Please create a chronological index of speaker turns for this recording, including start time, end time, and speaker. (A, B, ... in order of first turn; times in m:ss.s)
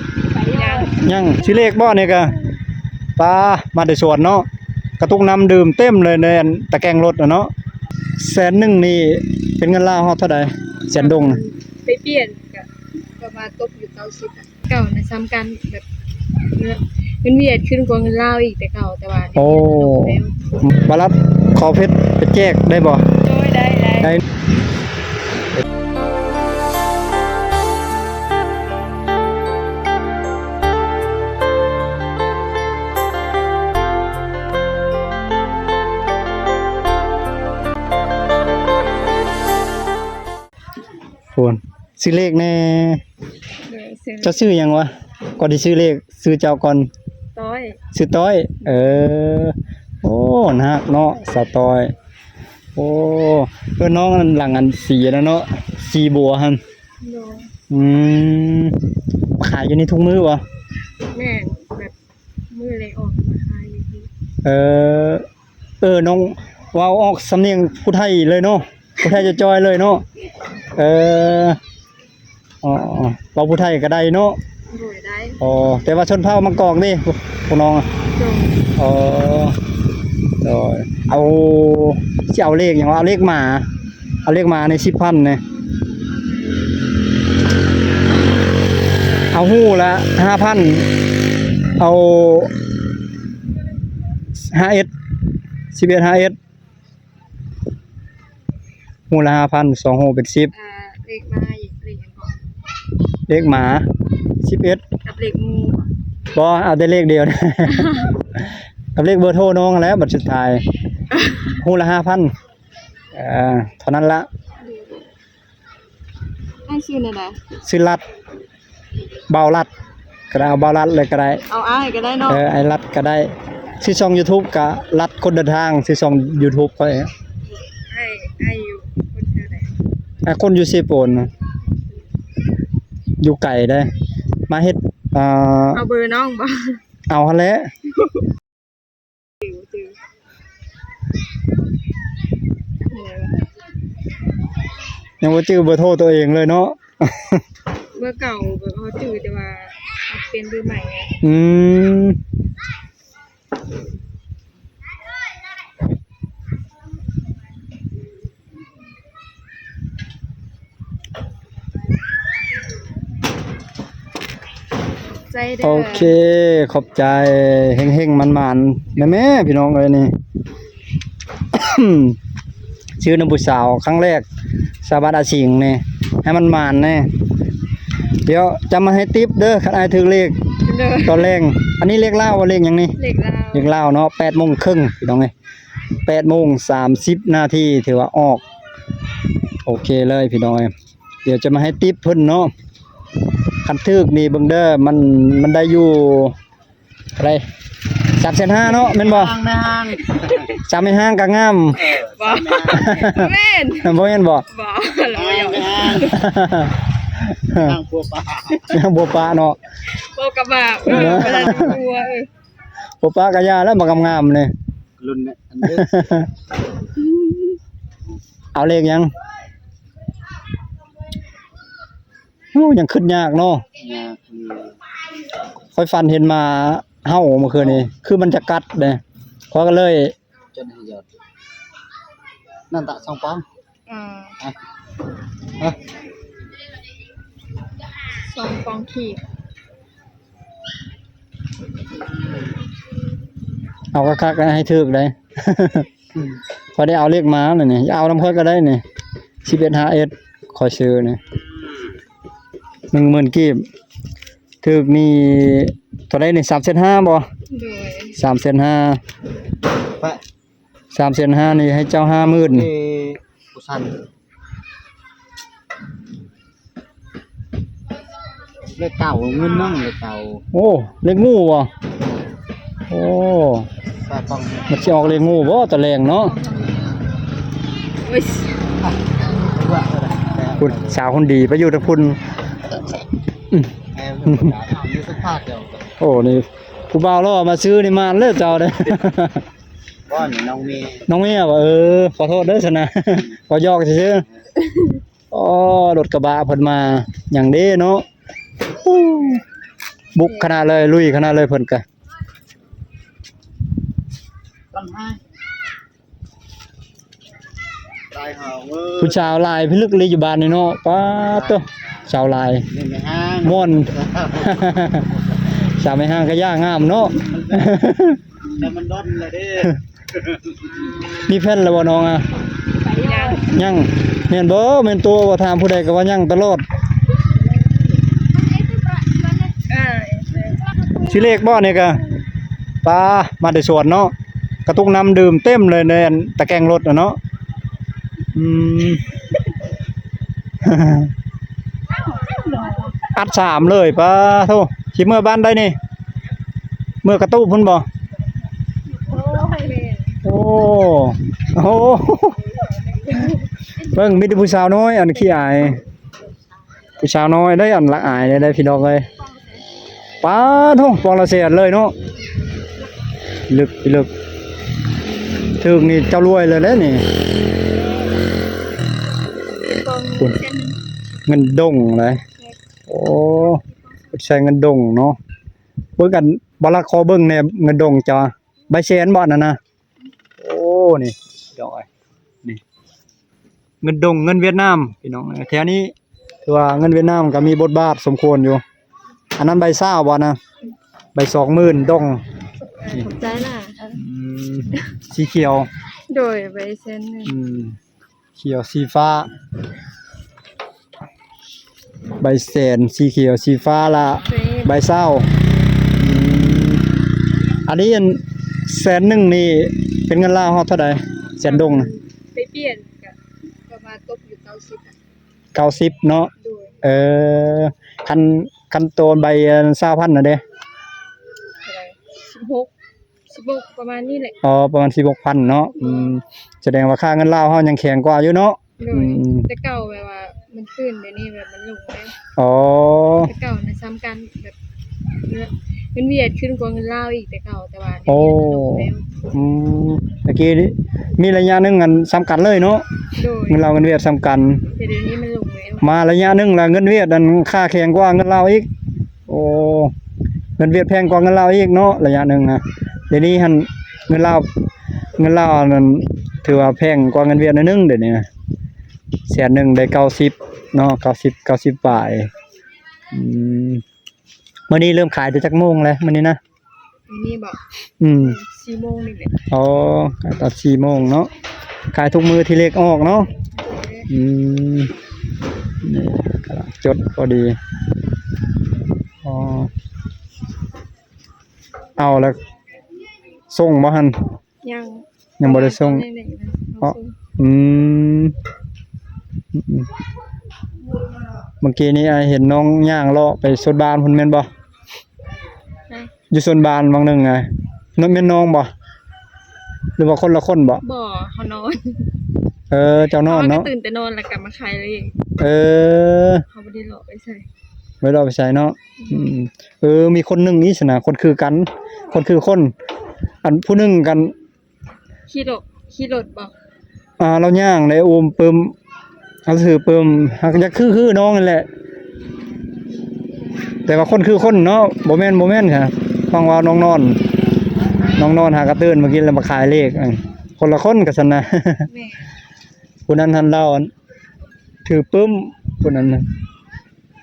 0:00.3-0:01.9 A
0:00.8-0:02.4 B
0:03.2-0:04.5 B
0:05.0-0:07.5 B
0:08.2-0:11.4 B
0:11.0-0:12.7 A
0:13.2-0:15.9 A
0:16.5-0:20.4 A
0:19.4-0:23.1 B
0:23.2-0:24.2 A
0:41.3-0:43.0 B
0:43.7-0:44.5 A
0:44.2-0:46.9 B
0:47.4-0:47.8 A
0:47.9-0:51.9 B
0:52.8-0:56.6 B
0:57.0-0:57.5 A
0:57.7-0:58.8 B
0:59.4-1:00.4 B
1:01.1-1:01.9 A
1:02.5-1:04.1 A
1:04.4-1:05.3 B
1:05.8-1:10.0 B
1:10.8-1:11.6 B
1:12.6-1:14.4 B
1:14.7-1:15.4 A
1:15.4-1:17.9 B
1:18.1-1:18.6 A
1:18.8-1:19.6 B
1:20.4-1:23.7 B
1:24.2-1:25.4 B
1:29.3-1:30.9 B
1:31.8-1:32.5 B
1:34.4-1:34.9 B
1:35.7-1:36.4 B
1:39.1-1:40.5 B
1:40.5-1:42.4 A
1:43.3-1:43.9 B
1:44.4-1:44.8 B
1:45.0-1:45.9 A
1:46.3-1:50.7 B
1:47.8-1:48.1 A
1:51.1-1:51.4 A
1:51.5-1:52.3 B
1:53.1-1:54.3 B
1:54.6-1:55.0 A
1:56.7-1:57.4 A
1:57.6-1:58.0 B
1:59.3-1:59.7 B
2:00.3-2:01.4 B
2:01.5-2:02.4 A
2:02.3-2:07.1 B
2:07.7-2:09.7 A
2:10.2-2:11.3 B
2:13.2-2:13.9 B
2:14.5-2:15.8 B
2:15.7-2:16.8 A
2:17.1-2:17.7 B
2:19.4-2:20.0 A
2:22.9-2:23.4 A
2:25.2-2:27.4 B
2:28.0-2:31.2 A
2:31.2-2:32.2 B
2:45.3-2:46.2 A
2:45.6-2:50.2 B
2:51.5-2:52.2 B
2:53.0-2:54.2 B
2:54.8-2:57.1 B
2:58.2-3:00.4 B
3:00.6-3:01.4 A
3:01.0-3:03.0 B
3:03.0-3:03.8 A
3:03.5-3:05.3 B
3:06.0-3:08.4 B
3:09.6-3:10.7 B
3:11.2-3:12.5 B
3:13.6-3:16.4 B
3:17.2-3:17.4 B
3:18.2-3:19.3 B
3:18.8-3:20.5 C
3:20.5-3:21.9 B
3:21.8-3:26.2 A
3:21.8-3:23.0 C
3:22.7-3:24.5 B
3:25.1-3:26.2 C
3:25.9-3:27.8 B
3:27.5-3:28.7 C
3:28.6-3:29.6 B
3:29.9-3:32.3 A
3:30.9-3:31.8 B
3:33.0-3:34.5 B
3:35.0-3:36.0 C
3:35.6-3:36.3 B
3:38.5-3:39.1 B
3:42.5-3:43.6 B
3:43.8-3:44.8 C
3:45.7-3:50.1 B
3:50.5-3:51.0 C
3:52.7-3:53.5 C
3:53.9-3:54.4 A
3:58.2-3:59.2 A
4:03.9-4:05.9 B
4:06.7-4:08.8 B
4:09.4-4:11.2 B
4:12.9-4:13.6 B
4:14.6-4:17.3 B
4:17.5-4:18.2 A
4:18.1-4:19.0 B
4:20.0-4:20.2 C
4:20.9-4:22.7 B
4:22.2-4:24.0 C
4:28.7-4:30.4 C
4:30.5-4:31.7 B
4:32.9-4:33.7 B
4:34.0-4:35.2 C
4:34.7-4:36.4 B
4:36.2-4:36.8 A
4:38.0-4:38.7 A
4:39.4-4:41.0 C
4:40.6-4:42.2 B
4:43.9-4:45.9 C
4:44.3-4:44.6 B
4:46.0-4:49.4 B
4:50.1-4:51.1 C
4:51.1-4:54.2 B
4:55.3-4:58.0 B
4:58.7-4:59.4 B
5:00.2-5:01.8 B
5:00.2-5:00.5 A
5:04.7-5:05.2 C
5:08.1-5:09.3 C
5:09.0-5:12.7 B
5:11.3-5:11.7 C
5:12.7-5:14.8 C
5:13.4-5:18.2 B
5:17.3-5:17.6 C
5:18.5-5:20.4 C
5:21.3-5:22.3 B
5:22.8-5:23.6 A
5:23.4-5:26.6 B
5:28.7-5:31.4 A
5:31.0-5:32.0 B
5:32.8-5:34.1 B
5:34.7-5:37.2 B
5:38.3-5:39.0 B
5:40.6-5:41.1 B
5:42.1-5:42.9 A
5:43.0-5:45.8 B
5:47.0-5:47.9 B
5:49.0-5:50.2 A
5:50.2-5:52.4 B
5:52.4-5:53.5 A
5:53.8-5:55.8 B
5:55.2-5:55.7 A
5:57.0-5:59.1 B
6:00.2-6:01.9 B
6:03.5-6:04.1 B
6:05.6-6:07.0 B
6:09.6-6:10.8 A
6:11.3-6:12.2 B
6:12.9-6:15.2 B
6:16.0-6:19.6 B
6:20.4-6:21.9 B
6:23.8-6:25.9 B
6:26.4-6:28.6 B
6:29.4-6:30.4 B
6:31.2-6:32.2 B
6:32.6-6:34.0 A
6:33.9-6:35.7 B
6:36.1-6:37.3 A
6:37.2-6:37.8 B
6:38.4-6:39.3 B
6:42.2-6:45.3 B
6:44.2-6:44.9 A
6:45.9-6:46.8 B
6:47.7-6:51.9 B
6:51.4-6:53.2 A
6:53.7-6:55.0 A
6:55.5-6:56.3 B
6:56.4-6:56.8 A
6:56.8-7:00.4 B
7:01.6-7:02.7 A
7:03.3-7:04.4 A
7:04.4-7:09.5 B
7:05.8-7:06.1 A
7:08.8-7:12.2 A
7:12.4-7:13.3 B
7:13.3-7:14.6 A
7:15.2-7:19.2 A
7:18.1-7:22.8 B
7:23.2-7:23.6 A
7:23.5-7:24.6 B
7:24.7-7:25.9 A
7:25.8-7:28.7 B
7:29.3-7:29.9 B
7:30.6-7:34.5 B
7:35.2-7:38.3 B
7:39.3-7:42.3 B
7:43.1-7:43.8 B
7:44.7-7:46.4 B
7:47.1-7:49.4 A
7:48.0-7:48.4 B
7:49.5-7:51.3 B
7:51.9-7:53.3 B
7:53.6-7:54.1 A
7:54.1-7:54.9 B
7:55.8-7:57.6 B
7:59.2-7:59.7 B
8:02.0-8:02.4 B
8:03.5-8:04.2 B
8:04.6-8:07.2 A
8:05.4-8:06.1 B
8:06.8-8:08.4 B
8:09.5-8:09.9 B
8:11.6-8:14.5 B
8:16.3-8:18.7 B
8:20.0-8:20.8 B
8:20.8-8:22.2 A
8:22.7-8:23.7 B
8:23.1-8:25.2 A
8:25.4-8:26.4 B
8:26.5-8:27.5 A
8:28.0-8:32.7 B
8:29.0-8:29.3 A
8:33.4-8:34.3 B
8:35.3-8:36.5 A
8:37.2-8:38.7 B
8:39.5-8:41.7 B
8:43.9-8:47.2 B
8:48.2-8:51.9 B
8:51.9-8:52.3 A
8:53.1-8:53.9 B
8:54.8-8:56.3 B